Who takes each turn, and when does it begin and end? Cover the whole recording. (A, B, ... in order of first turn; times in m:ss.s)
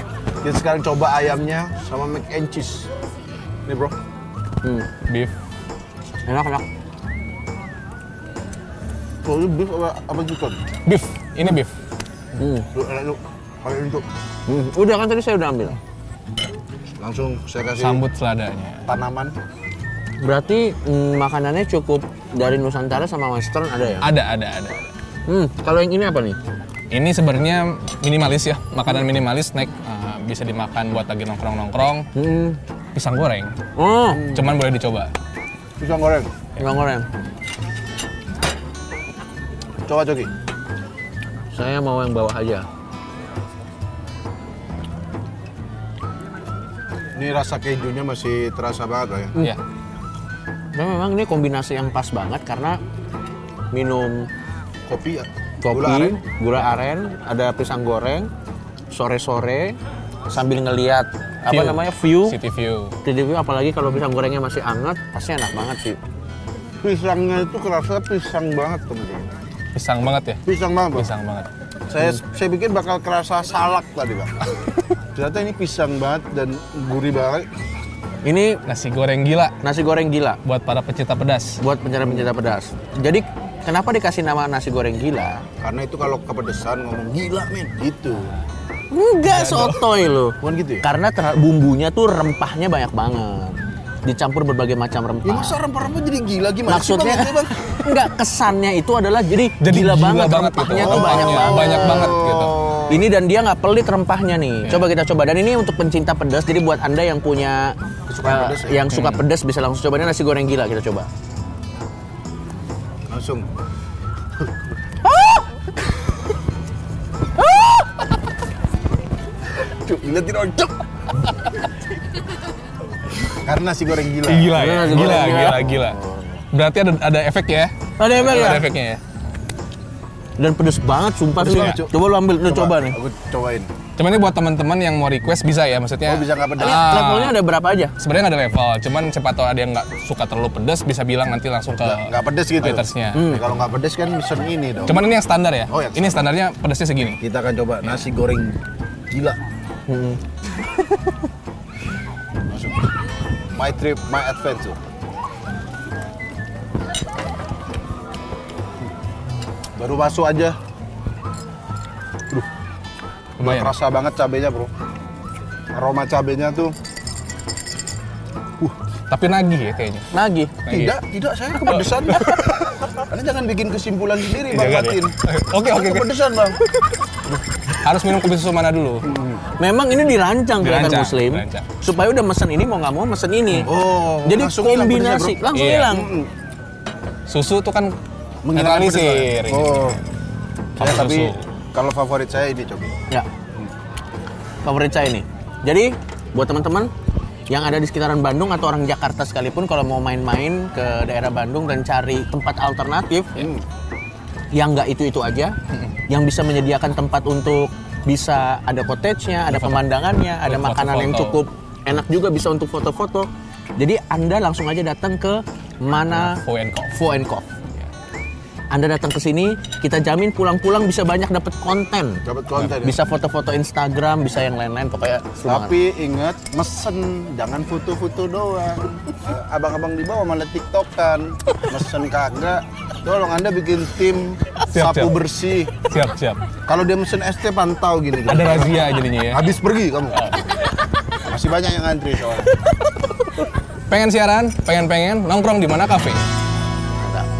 0:00.4-0:02.9 A
0:03.7-0:04.0 A
0:04.6-0:04.9 B
0:05.1-0:05.3 C
0:06.3-0:06.6 B
0:09.2-0:10.6 A
0:10.9-0:11.7 C
0:12.4-0:12.7 B
0:12.7-0:14.0 A
0:14.5-0:15.8 B
0:17.0-0:18.0 A
0:17.8-0:18.8 C
0:18.8-0:19.3 A
0:20.2-0:24.1 B
0:24.0-0:24.9 C
0:25.3-0:26.4 B
0:26.9-0:32.1 C
0:32.2-0:32.6 B
0:33.0-0:33.6 C
0:33.8-0:34.5 B
0:34.2-0:35.1 C
0:35.8-0:36.3 A
0:36.6-0:37.1 B
0:39.9-0:40.3 A
0:41.5-0:42.7 B
0:47.2-0:49.4 A
0:50.7-0:52.8 B
0:53.7-0:54.3 B
0:54.9-0:56.2 A
0:55.6-0:58.3 B
0:58.9-0:59.8 B
1:00.3-1:02.4 B
1:01.5-1:03.0 C
1:03.0-1:06.0 B
1:06.8-1:09.3 A
1:09.8-1:10.4 C
1:10.4-1:11.1 A
1:11.0-1:11.5 C
1:11.9-1:14.4 A
1:15.1-1:17.5 A
1:18.2-1:18.6 B
1:18.7-1:19.6 C
1:19.6-1:20.4 B
1:20.4-1:21.6 C
1:21.6-1:25.4 B
1:25.6-1:28.4 A
1:28.9-1:35.6 B
1:29.2-1:29.8 C
1:30.4-1:30.9 A
1:35.2-1:37.5 A
1:36.7-1:42.1 B
1:39.6-1:42.5 C
1:40.8-1:43.0 A
1:42.9-1:51.1 B
1:48.1-1:48.8 A
1:48.9-1:49.2 C
1:53.1-1:53.5 A
1:55.1-1:55.4 B
1:59.6-2:00.7 A
2:03.3-2:06.4 A
2:04.3-2:06.0 C
2:04.5-2:05.7 B
2:06.5-2:09.0 C
2:08.0-2:08.7 B
2:10.4-2:13.0 B
2:11.4-2:11.9 A
2:12.4-2:13.7 A
2:14.0-2:17.4 C
2:16.0-2:16.9 A
2:16.6-2:17.9 B
2:18.0-2:23.3 C
2:21.8-2:25.0 A
2:23.1-2:23.4 B
2:24.9-2:27.2 C
2:25.7-2:26.3 A
2:27.2-2:28.6 A
2:29.1-2:29.4 A
2:29.9-2:30.2 B
2:32.5-2:32.8 A
2:33.6-2:34.8 A
2:39.8-2:40.6 A
2:43.4-2:43.7 C
2:43.4-2:44.7 A
2:45.7-2:46.8 A
2:49.1-2:50.1 C
2:50.1-2:50.6 B
2:50.6-2:51.0 C
2:50.7-2:56.6 A
2:51.6-2:52.4 C
2:54.5-2:56.1 C
2:57.8-2:59.0 C
2:59.0-2:59.4 A
2:59.6-3:03.7 B
3:00.6-3:01.7 C
3:03.7-3:06.3 A
3:04.2-3:06.1 B
3:05.5-3:05.9 C
3:07.3-3:08.0 C
3:08.4-3:10.0 A
3:08.5-3:10.0 C
3:10.8-3:13.0 A
3:10.8-3:11.4 C
3:14.6-3:16.9 B
3:17.5-3:23.5 B
3:23.4-3:23.6 A
3:24.5-3:25.6 B
3:26.1-3:37.5 B
3:29.5-3:29.8 C
3:30.5-3:31.4 C
3:36.1-3:37.0 C
3:38.7-3:42.2 B
3:42.2-3:43.0 A
3:42.8-3:45.7 B
3:45.4-3:55.8 A
3:54.7-3:55.1 C
3:55.9-3:56.4 C
3:56.7-4:00.3 A
3:58.3-3:59.4 C
4:00.1-4:00.4 C
4:01.3-4:02.6 A
4:03.9-4:06.2 C